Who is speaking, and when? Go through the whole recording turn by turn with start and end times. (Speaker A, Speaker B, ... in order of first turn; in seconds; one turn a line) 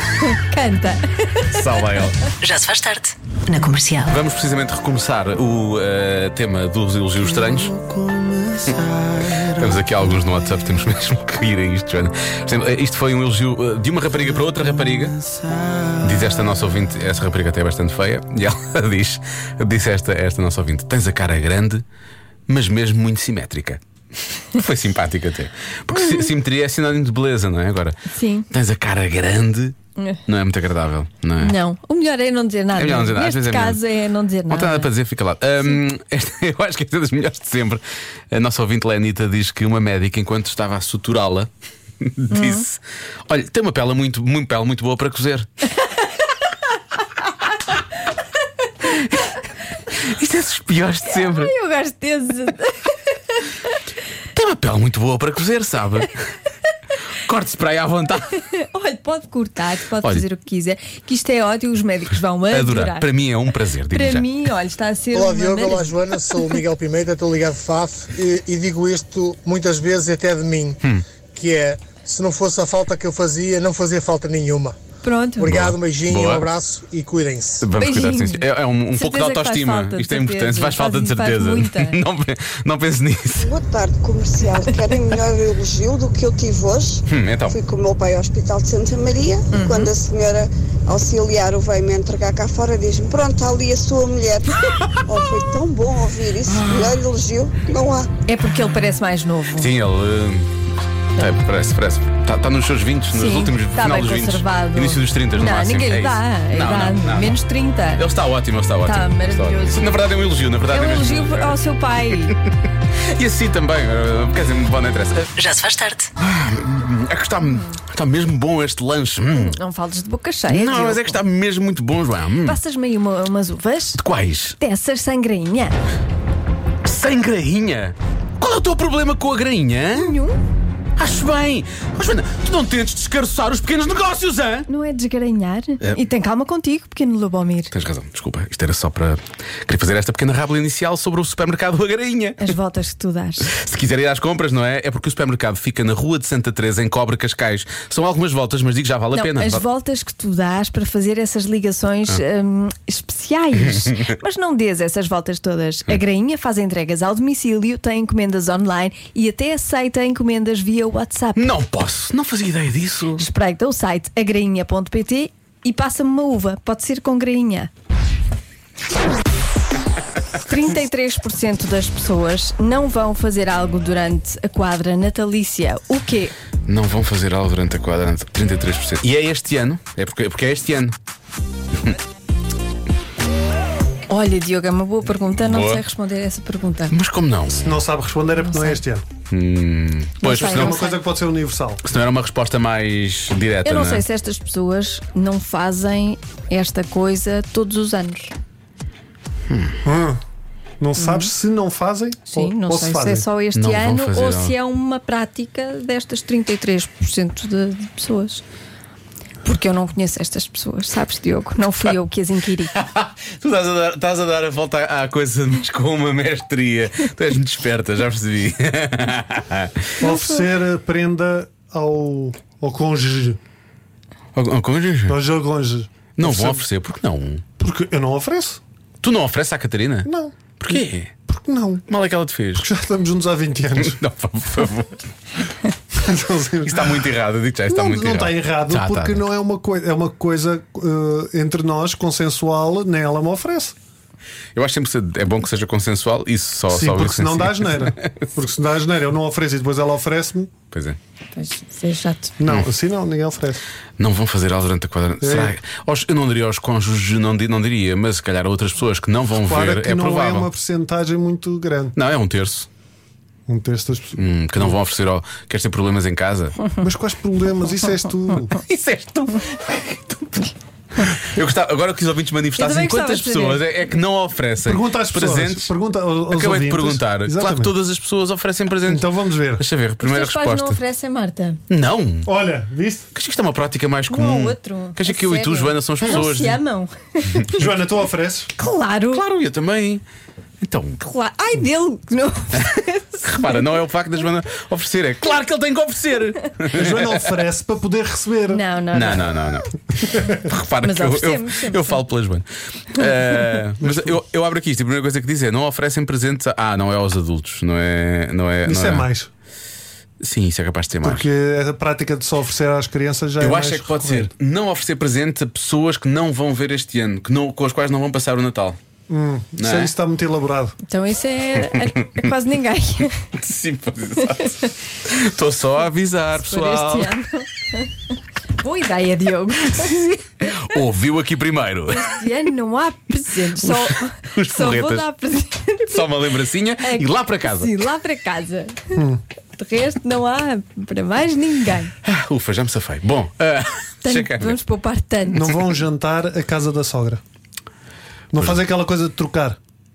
Speaker A: 0.2-1.6
Speaker B: 1.5-2.2
Speaker C: 2.4-4.2
Speaker B: 4.1-21.8
Speaker B: 22.5-23.8
Speaker B: 24.4-28.0
Speaker A: 28.1-28.5
Speaker B: 28.5-29.8
Speaker B: 30.3-31.6
Speaker A: 31.4-34.9
Speaker B: 32.8-33.8
Speaker B: 34.5-41.5
Speaker B: 42.0-45.5
Speaker A: 42.3-42.6
Speaker B: 48.9-49.3
Speaker B: 49.9-51.5
Speaker A: 51.1-53.8
Speaker B: 54.3-56.2
Speaker B: 57.2-58.4
Speaker A: 58.5-63.1
Speaker B: 62.5-64.3
Speaker A: 63.9-66.4
Speaker D: 65.1-70.8
Speaker D: 71.3-74.8
Speaker A: 75.0-75.5
Speaker D: 75.4-77.7
Speaker B: 75.5-76.5
Speaker B: 77.6-83.5
Speaker A: 77.8-82.0
Speaker E: 83.4-98.1
Speaker B: 87.1-87.6
Speaker A: 89.5-89.9
Speaker B: 96.5-97.0
Speaker A: 98.3-99.7
Speaker B: 99.6-100.5
Speaker B: 101.2-107.4
Speaker A: 103.1-108.0
Speaker B: 108.0-111.6
Speaker A: 108.8-110.0
Speaker A: 110.7-112.4
Speaker B: 113.0-115.3
Speaker C: 115.4-116.1
Speaker B: 116.2-119.6
Speaker A: 117.4-117.8
Speaker A: 119.3-121.2
Speaker B: 120.5-122.6
Speaker A: 122.5-124.0
Speaker B: 124.0-124.6
Speaker A: 124.6-125.8
Speaker B: 126.8-130.2
Speaker A: 130.0-130.4
Speaker B: 131.0-134.7
Speaker A: 134.7-137.7
Speaker B: 137.7-142.5
Speaker A: 142.4-143.5
Speaker B: 143.5-149.6
Speaker A: 149.1-161.5
Speaker B: 153.7-154.1
Speaker B: 161.4-163.3
Speaker A: 163.2-167.7
Speaker A: 170.4-176.4
Speaker B: 176.7-180.9
Speaker A: 184.1-186.9
Speaker B: 185.5-185.8
Speaker B: 186.9-187.8
Speaker F: 187.5-189.1
Speaker A: 188.4-188.8
Speaker B: 189.3-190.8
Speaker A: 190.2-191.0
Speaker F: 190.3-191.8
Speaker B: 191.8-194.1
Speaker A: 193.7-198.3
Speaker B: 199.5-199.8
Speaker F: 199.8-200.2
Speaker F: 200.8-203.2
Speaker A: 201.0-201.3
Speaker A: 202.3-208.4
Speaker B: 203.5-204.6
Speaker A: 209.4-212.8
Speaker B: 212.7-219.9
Speaker A: 220.0-220.4
Speaker F: 220.0-223.4
Speaker B: 224.3-225.2
Speaker F: 225.1-226.6
Speaker B: 226.2-227.4
Speaker F: 227.6-228.6
Speaker B: 229.0-231.1
Speaker F: 230.1-231.8
Speaker B: 231.9-232.7
Speaker F: 232.6-234.0
Speaker B: 233.8-235.0
Speaker F: 235.9-237.1
Speaker B: 236.7-239.3
Speaker F: 237.7-243.8
Speaker B: 244.6-248.1
Speaker F: 246.7-250.5
Speaker B: 250.7-251.0
Speaker A: 251.3-252.3
Speaker F: 252.4-253.6
Speaker B: 254.0-260.5
Speaker F: 255.2-255.5
Speaker F: 259.4-262.0
Speaker B: 262.0-262.7
Speaker F: 263.5-264.7
Speaker B: 264.2-266.6
Speaker F: 266.8-268.6
Speaker B: 268.5-275.7
Speaker A: 272.6-273.6
Speaker F: 274.6-277.7
Speaker B: 276.3-280.8
Speaker F: 278.9-279.6
Speaker A: 280.0-281.6
Speaker B: 281.7-282.3
Speaker F: 282.2-283.1
Speaker B: 283.1-286.6
Speaker A: 284.1-287.6
Speaker F: 287.5-288.5
Speaker A: 288.6-289.2
Speaker B: 289.1-290.0
Speaker B: 290.6-291.0
Speaker A: 291.0-293.6
Speaker B: 293.2-297.3
Speaker F: 296.7-298.6
Speaker A: 298.5-299.4
Speaker B: 298.9-299.7
Speaker F: 300.1-300.4
Speaker B: 300.4-309.1
Speaker A: 300.8-302.0
Speaker A: 303.0-303.4
Speaker F: 303.8-304.2
Speaker F: 308.6-309.3
Speaker B: 310.2-311.3
Speaker F: 311.0-314.3
Speaker B: 313.4-318.8
Speaker F: 319.1-320.8
Speaker B: 319.6-319.9
Speaker A: 320.9-323.3
Speaker B: 323.4-327.1
Speaker A: 324.2-324.7
Speaker A: 326.4-327.9
Speaker A: 328.6-330.5
Speaker B: 329.8-332.2
Speaker A: 331.9-336.3
Speaker B: 333.6-335.1
Speaker B: 335.9-337.9
Speaker A: 336.8-339.0
Speaker F: 338.9-339.2
Speaker A: 339.6-341.9
Speaker B: 342.0-344.6
Speaker A: 344.0-345.5
Speaker F: 345.3-347.2
Speaker F: 348.3-349.6